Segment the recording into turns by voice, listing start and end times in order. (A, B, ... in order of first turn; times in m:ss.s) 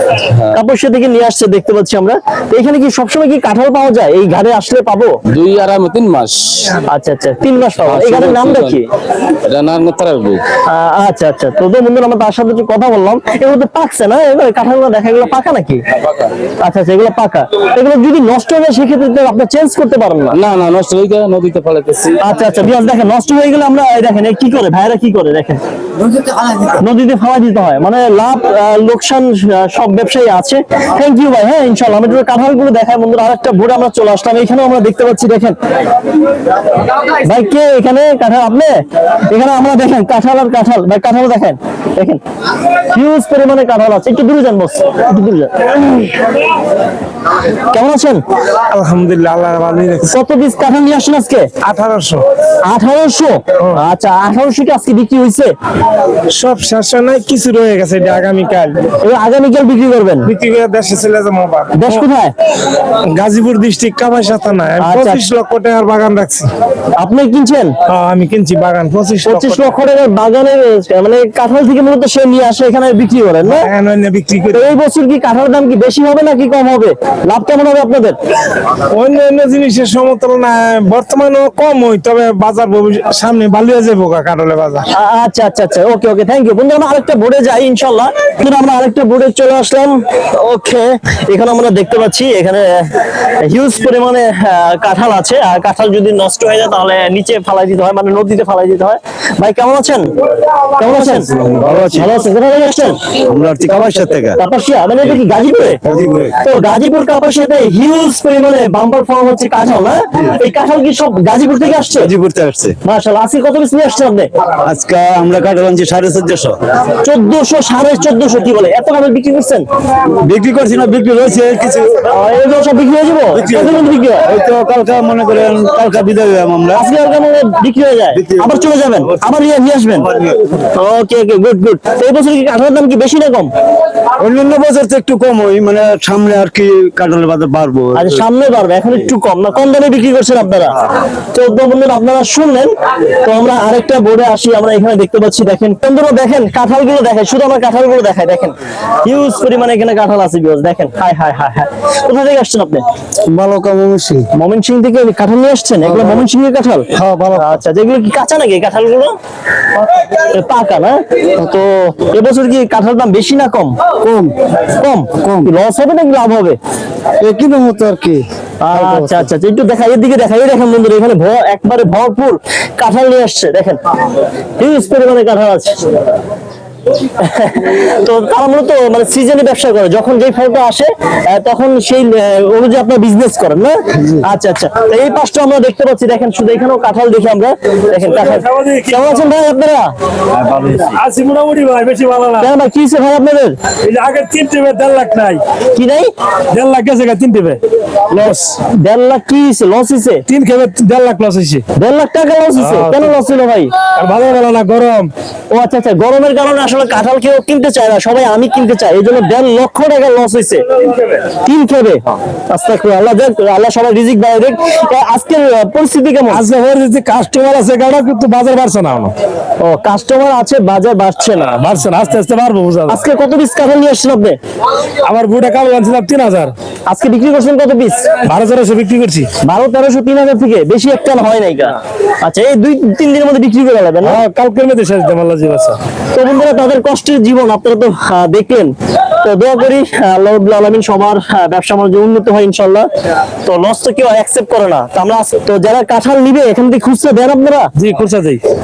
0:00.5-0:05.1 A
0:05.3-0:06.8 B
0:06.9-0:08.8 A
0:07.8-0:08.8 B
0:09.4-0:10.4 B
0:10.7-0:15.8 A
0:16.0-0:16.3 B
0:16.6-0:20.4 A
0:20.3-0:22.2 B
0:22.2-0:25.6 A
0:26.1-0:26.7 B
0:26.8-0:35.6 A
0:37.2-0:38.7 A
0:39.3-0:42.2 A
0:42.9-0:46.2 A
0:47.7-0:48.2 A
0:48.7-0:50.1 C
0:50.0-0:51.5 A
0:51.6-0:52.3 C
0:52.6-0:55.5 A
0:56.3-0:58.9 C
0:59.0-1:00.3 A
1:00.2-1:02.0 C
1:01.7-1:02.3 A
1:03.1-1:06.5 C
1:04.8-1:05.2 A
1:07.0-1:07.7 A
1:07.9-1:09.7 C
1:09.2-1:13.7 A
1:13.4-1:14.7 C
1:14.5-1:18.2 A
1:18.9-1:24.8 C
1:24.9-1:40.1 A
1:40.8-1:41.3 A
1:41.4-1:42.1 D
1:41.8-1:43.0 A
1:43.1-1:44.4 D
1:44.4-1:45.8 A
1:45.8-1:46.3 D
1:46.4-1:52.1 A
1:52.0-1:52.7 D
1:52.8-1:54.3 A
1:54.6-1:56.6 D
1:57.0-1:59.6 A
2:00.0-2:02.0 D
2:02.1-2:04.3 A
2:03.3-2:06.8 D
2:06.8-2:10.2 A
2:08.1-2:08.6 D
2:10.1-2:10.5 D
2:10.7-2:13.5 A
2:14.2-2:18.2 D
2:17.9-2:20.8 A
2:21.3-2:32.8 A
2:33.3-2:34.2 D
2:34.3-2:39.1 A
2:37.0-2:37.4 D
2:40.0-2:43.8 A
2:44.7-2:46.6 A
2:47.3-2:48.2 C
2:48.6-2:53.8 A
2:54.6-2:55.8 A
2:57.2-3:09.9 A
3:07.9-3:09.2 E
3:10.6-3:12.5 E
3:12.4-3:13.6 A
3:13.8-3:15.4 E
3:15.8-3:16.1 A
3:16.5-3:17.6 E
3:18.1-3:20.2 A
3:20.3-3:21.6 E
3:21.8-3:23.7 A
3:22.6-3:23.1 E
3:24.0-3:25.1 E
3:25.5-3:30.7 A
3:31.4-3:36.4 A
3:36.3-3:39.1 E
3:39.6-3:41.6 A
3:41.4-3:43.0 E
3:42.9-3:44.4 A
3:45.0-3:46.5 E
3:46.9-3:48.2 A
3:48.2-3:49.3 E
3:49.4-3:54.2 A
3:54.0-3:55.8 E
3:56.1-4:02.8 A
4:03.4-4:07.7 A
4:07.8-4:08.4 E